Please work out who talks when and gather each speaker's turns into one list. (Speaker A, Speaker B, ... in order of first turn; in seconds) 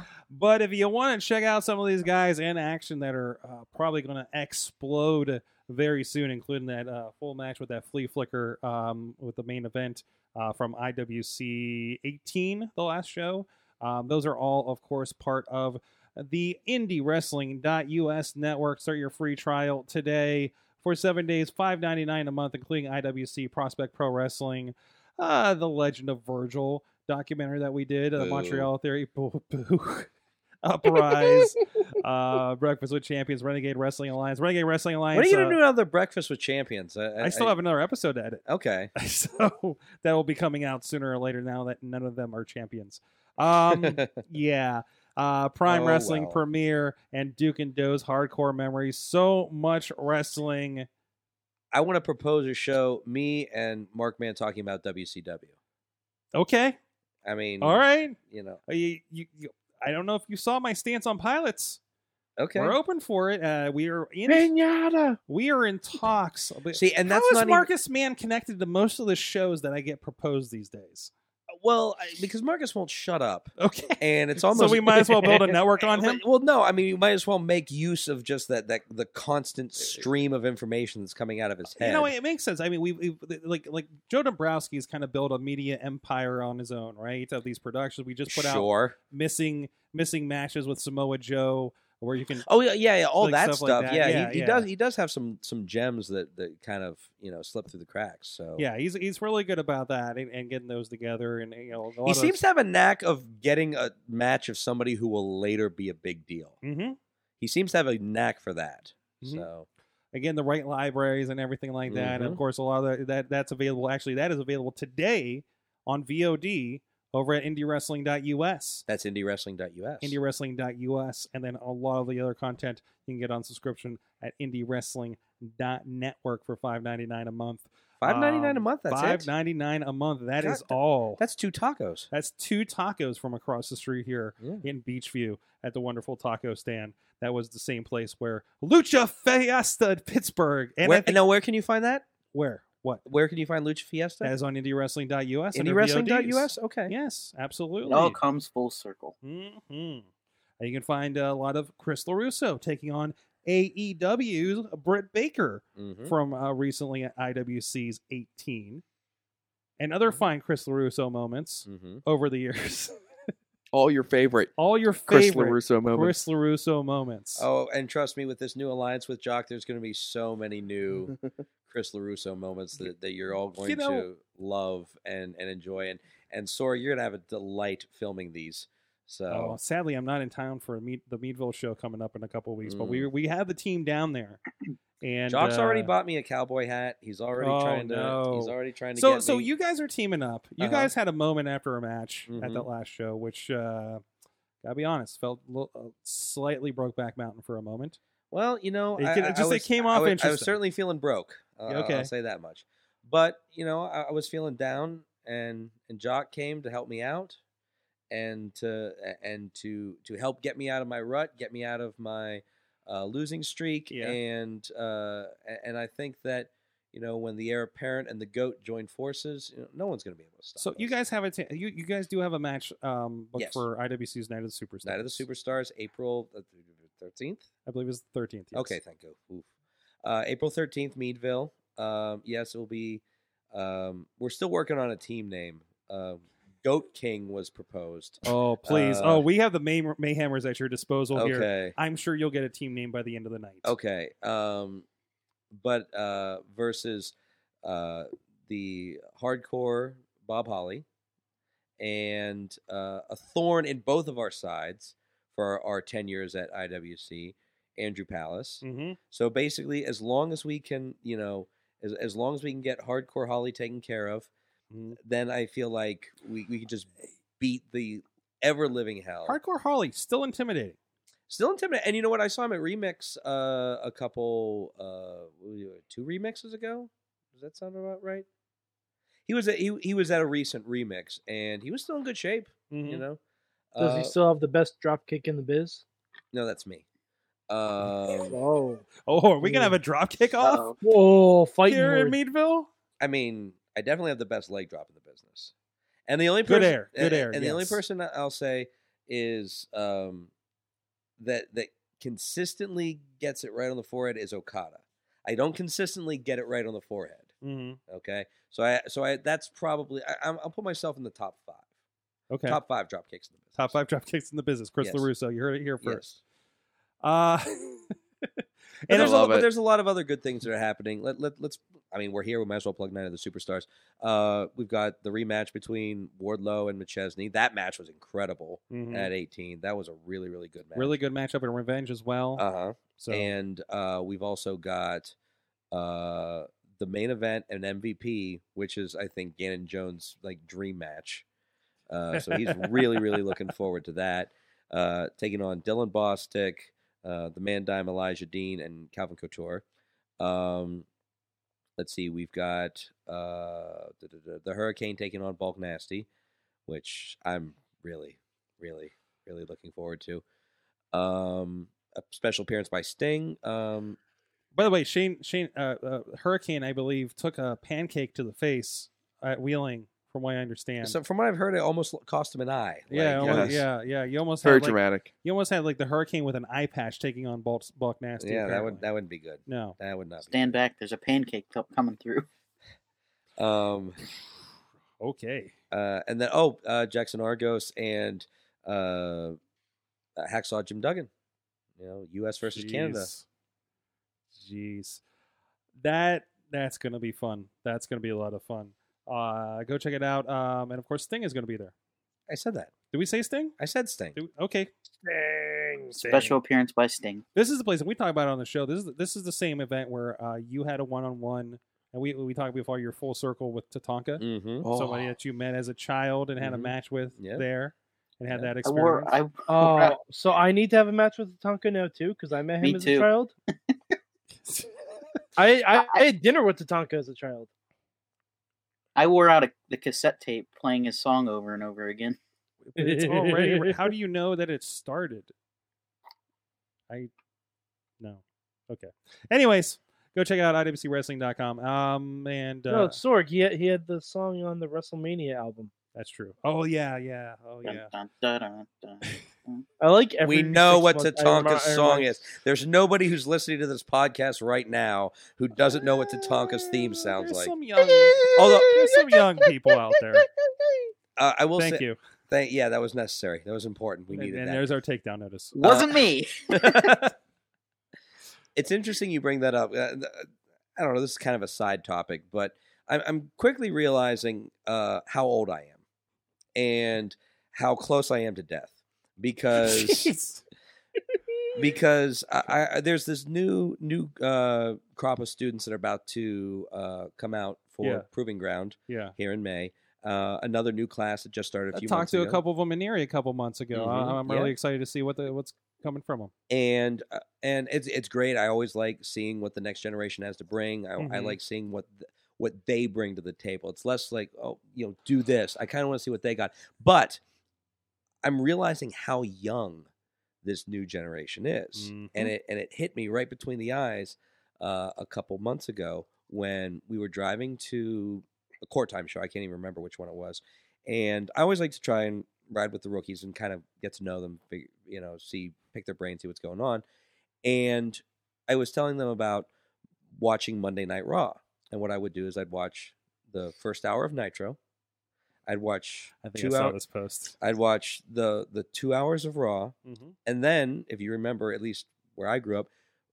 Speaker A: 0.3-30.1, 30.6-35.6, 37.2-38.4, 38.9-50.9, 56.3-56.8, 57.6-61.8, 62.5-64.5, 65.3-71.1, 73.6-76.2, 81.7-92.5, 93.2-94.7, 98.6-102.4, 106.6-107.0, 109.2-109.5, 110.1-118.8, 120.0-131.2, 132.1-141.2, 142.3-143.0, 144.2-148.2, 149.2-150.1, 150.6-158.8, 159.8-162.9, 164.6-167.5, 173.6-174.1, 179.3-184.4, 185.0-185.9, 187.4-194.0, 194.6-198.0, 199.0-200.6, 201.7-202.1, 213.9-214.2, 220.6-225.2, 227.7-228.8, 238.2-243.7, 258.6-259.0, 264.7-265.0, 269.2-270.8, 282.7-283.1, 289.1-290.7, 291.7-292.7, 296.4-297.8, 307.4-307.8, 312.3-312.6, 313.5-316.0, 317.0-319.2, 328.7-329.1, 330.7-332.4, 333.0-333.3, 364.5-371.0, 372.9-378.8, 379.4-379.8, 385.0-385.5, 392.5-393.2, 394.3-395.0, 395.8-401.7, 402.9-403.5, 404.1-404.7, 406.0-406.4, 407.3-419.1, 432.6-435.3, 438.0-443.0, 445.9-447.9, 457.1-460.3, 461.6-462.0, 464.1-465.6, 480.0-480.4, 487.8-488.1, 488.9-489.1, 491.7-496.3, 501.0-501.4, 511.8-512.3, 536.2-537.3, 539.8-540.1
Speaker B: 28.1-28.7, 35.1-37.6, 38.5-38.9, 43.7-44.2, 45.6-46.4, 51.7-55.5, 57.2-58.6, 62.4-62.8, 66.7-67.7, 71.5-82.1, 88.3-89.0, 92.4-98.6, 102.0-106.6, 107.4-109.7, 111.9-112.4, 118.9-120.2, 128.0-129.3, 130.4-132.1, 134.4-134.6, 140.8-142.1, 143.1-144.3, 145.5-146.9, 155.8-156.1, 161.7-162.0, 167.3-171.2, 171.7-179.6, 182.6-183.1, 185.3-189.5, 190.6-190.9, 192.3-192.7, 198.3-207.4, 208.1-220.9, 223.3-223.6, 224.8-227.5, 228.5-229.5, 230.0-239.2, 241.1-241.8, 243.6-244.8, 245.5-250.8, 251.8-264.3, 265.0-269.4, 271.3-278.3, 279.2-283.2, 283.7-284.1, 286.3-286.8, 287.5-288.4, 293.0-295.5, 296.1-300.3, 301.2-307.3, 307.9-311.7, 312.4-313.8, 314.8-315.1, 315.8-316.2, 318.9-331.0, 332.4-335.1, 335.7-341.2, 341.9-349.6, 350.2-350.9, 351.8-356.1, 356.7-360.2, 360.9-364.0, 370.8-373.6, 378.2-380.6, 383.4-384.0, 385.7-389.4, 390.2-391.1, 391.8-393.1, 402.3-402.7, 403.6-404.2, 414.2-414.6, 416.4-417.4, 418.3-418.5, 450.2-457.5, 458.2-458.9, 461.1-464.7, 465.6-467.1, 468.5-475.8, 476.5-480.1, 481.5-492.4, 493.7-494.5, 496.5-507.2, 508.2-509.9, 510.4-526.8, 527.4-529.5, 530.1-534.6, 535.5-536.8, 537.4-542.7
Speaker C: 64.3-65.2, 283.8-285.8, 288.3-288.9, 289.4-289.8, 290.8-292.1, 405.4-405.9, 419.5-423.3, 425.4-427.5, 432.8-433.7, 442.7-445.7, 449.8-452.2, 457.8-459.0
Speaker D: 147.9-149.1, 290.4-290.8, 380.2-382.2, 406.0-407.2, 418.6-420.0, 422.6-423.1, 428.9-432.2, 447.6-449.6, 465.5-467.1
Speaker E: 163.7-164.5, 165.1-166.2, 318.9-319.4, 373.2-373.6, 374.4-375.1, 414.6-415.1